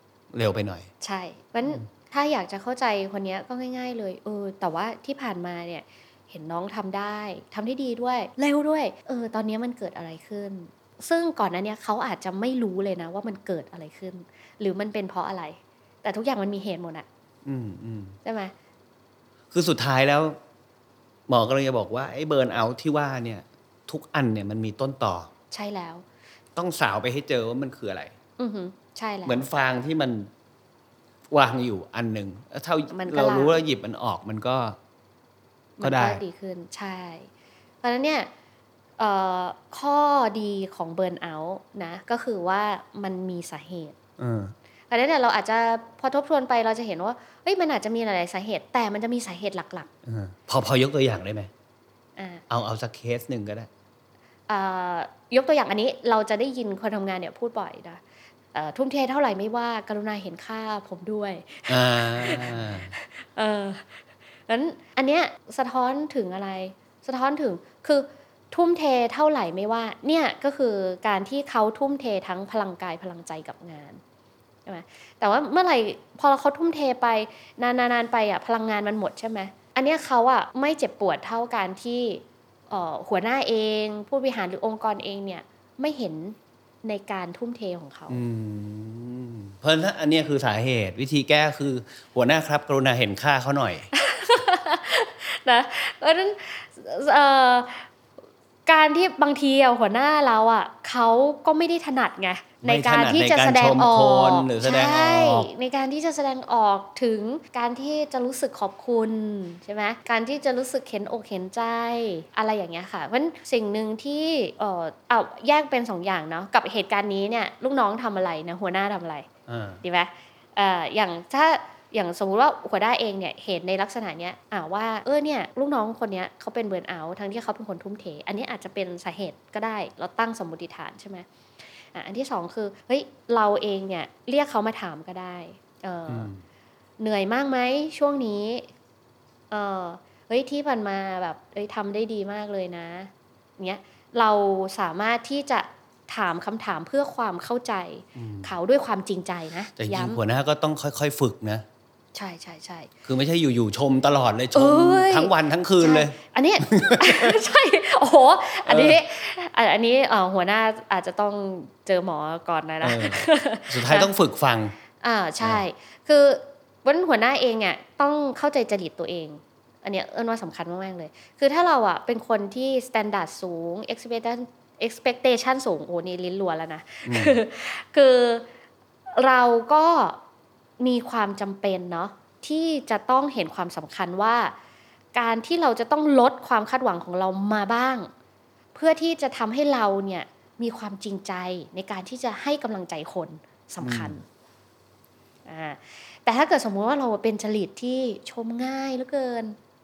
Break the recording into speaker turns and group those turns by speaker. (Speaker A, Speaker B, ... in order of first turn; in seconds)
Speaker A: 0.3-0.9, 17.5-18.2, 19.5-20.4, 21.3-25.3, 26.6-28.1, 29.2-30.3, 31.3-34.8, 35.8-36.2, 44.2-44.5, 50.1-51.5, 52.5-53.7, 61.7-62.9, 88.1-93.9, 102.6-105.5, 119.5-119.8, 136.1-136.4, 148.2-148.6, 149.8-151.7, 153.1-157.4, 158.7-159.0, 162.8-164.8, 177.1-177.4, 193.8-194.2
Speaker B: 1.0-17.1, 18.2-18.5, 25.5-26.1, 28.4-29.5, 32.9-33.6, 35.8-37.3, 37.8-38.3, 39.0-44.0, 44.9-49.9, 52.2-52.4, 54.5-58.0, 58.5-64.0, 64.5-74.0, 74.7-88.2, 93.9-97.9, 98.7-119.3, 119.8-131.3, 131.9-136.3, 137.0-138.7, 139.5-150.2, 152.1-152.9, 154.6-164.1, 165.0-178.5, 179.1-180.2, 180.8-184.5, 185.1-188.1, 188.7-194.2, 195.5-199.6